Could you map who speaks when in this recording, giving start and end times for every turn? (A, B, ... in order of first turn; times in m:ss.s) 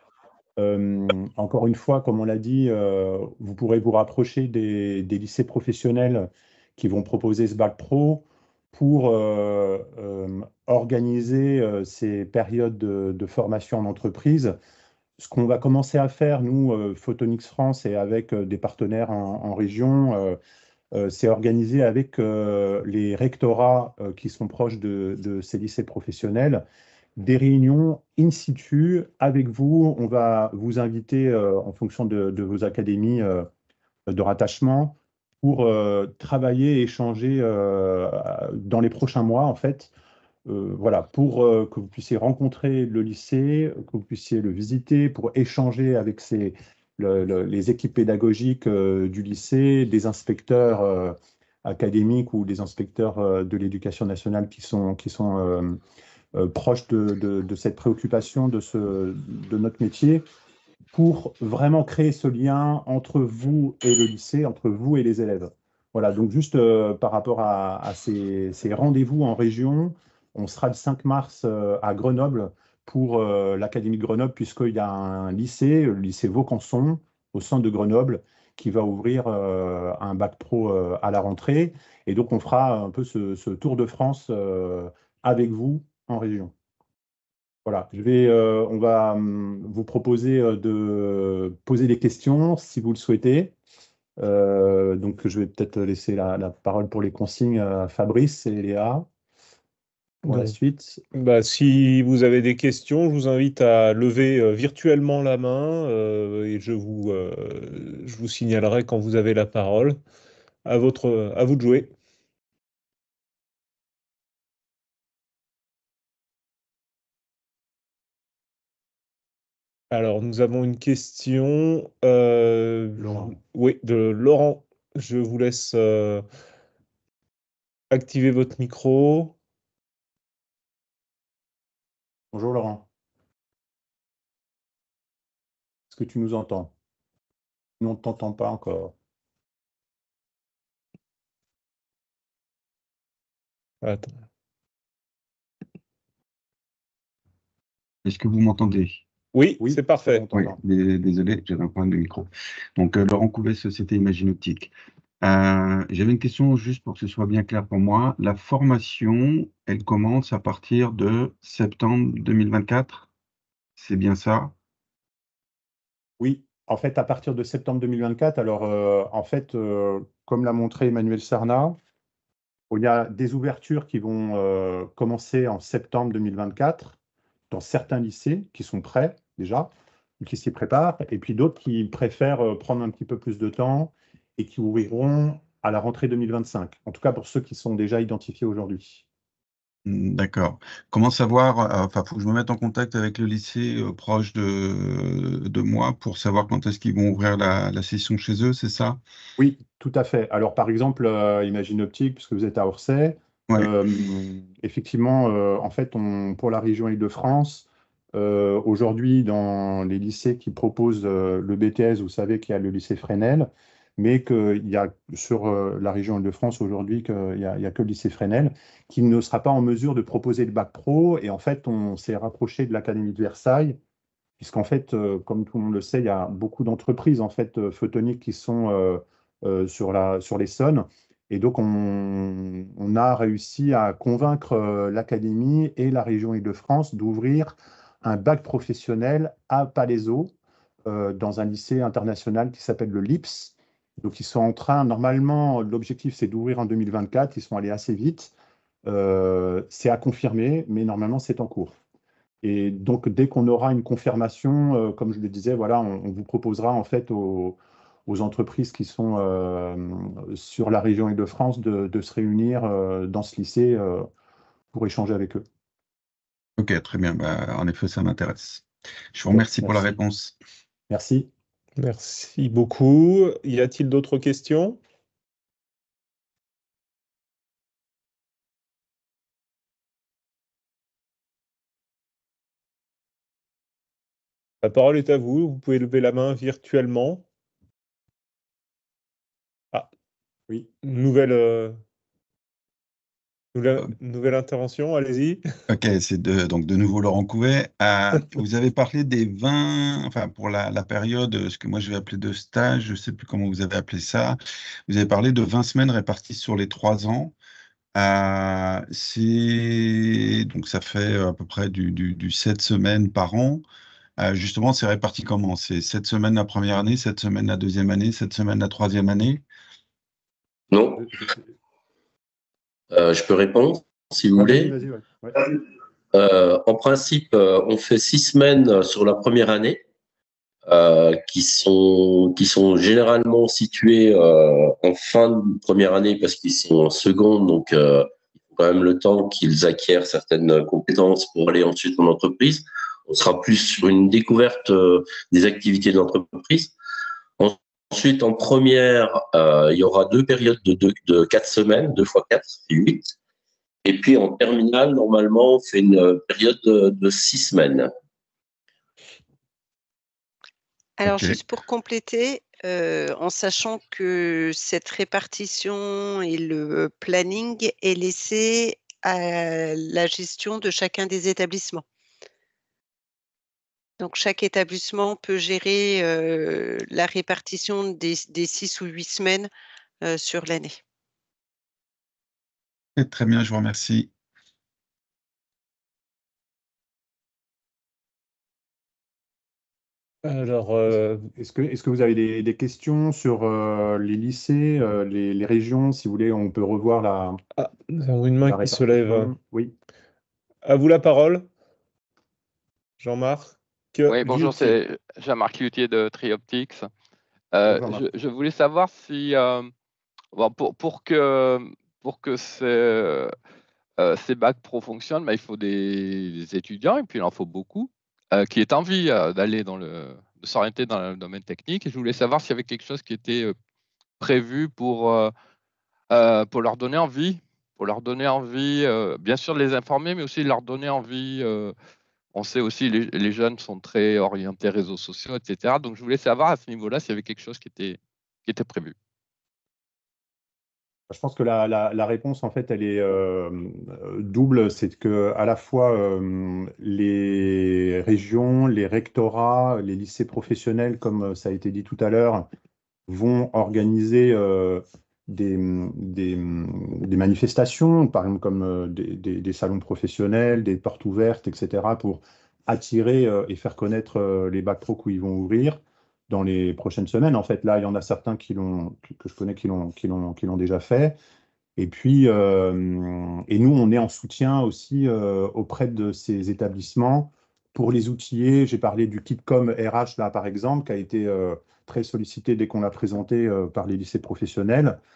0:00.6-0:14.6 A
0:15.2-0:20.4 A
0:20.9-0:26.6 A
0:27.2-0:33.5 A
0:34.1-0:39.9 A
0:40.5-0:55.8 A
0:56.4-1:00.2 A
1:00.9-1:26.5 A
1:27.6-1:33.5 A
1:34.2-1:39.1 A
1:40.2-1:40.5 B
1:40.3-1:41.0 A
1:41.1-1:50.0 B
1:50.7-1:51.9 B
1:59.9-2:06.2 B
2:03.0-2:03.4 A
2:07.9-2:09.4 B
2:12.3-2:12.9 A
2:15.9-2:16.7 A
2:17.8-2:18.9 A
2:23.8-2:24.1 B
2:28.0-2:29.0 C
2:29.3-2:30.3 B
2:29.6-2:30.6 A
2:30.3-2:43.1 C
2:43.8-2:44.5 C
2:46.2-2:51.8 A
2:52.7-2:57.0 A
2:57.5-3:09.0 A
3:09.9-3:19.0 C
3:19.4-3:43.8 A
3:44.4-4:00.3 A
4:00.9-4:08.3 A
4:08.9-4:11.8 A
4:12.4-4:24.1 A
4:24.7-4:25.4 A
4:26.6-4:30.4 C
4:29.3-4:30.0 A
4:30.9-4:31.3 A
4:31.8-4:34.8 B
4:44.6-4:47.2 B
4:50.6-4:51.8 B
4:53.6-4:55.4 B
4:55.7-5:07.4 C
5:08.0-5:13.6 C
5:14.2-5:19.4 C
5:20.7-5:21.2 D
5:22.9-5:24.8 D
5:24.4-5:25.4 A
5:26.1-5:29.8 D
5:30.7-5:46.7 D
5:47.4-5:53.1 D
5:53.8-5:57.9 D
6:01.0-6:11.8 E
6:01.0-6:01.4 C
6:14.0-6:19.5 E
6:20.0-6:20.8 E
6:23.0-6:24.1 C
6:30.2-6:31.3 B
6:30.9-6:37.4 A
6:37.6-6:39.3 B
6:38.4-6:39.7 A
6:40.6-6:41.5 B
6:43.0-6:44.7 B
6:44.1-6:46.9 F
6:47.5-6:49.7 F
6:47.7-6:48.0 A
6:50.3-6:53.3 F
6:54.0-7:03.6 F
7:04.2-7:05.3 F
7:06.1-7:11.8 F
7:12.3-7:19.0 F
7:21.1-7:32.5 A
7:33.1-7:51.2 A
7:51.8-8:05.0 A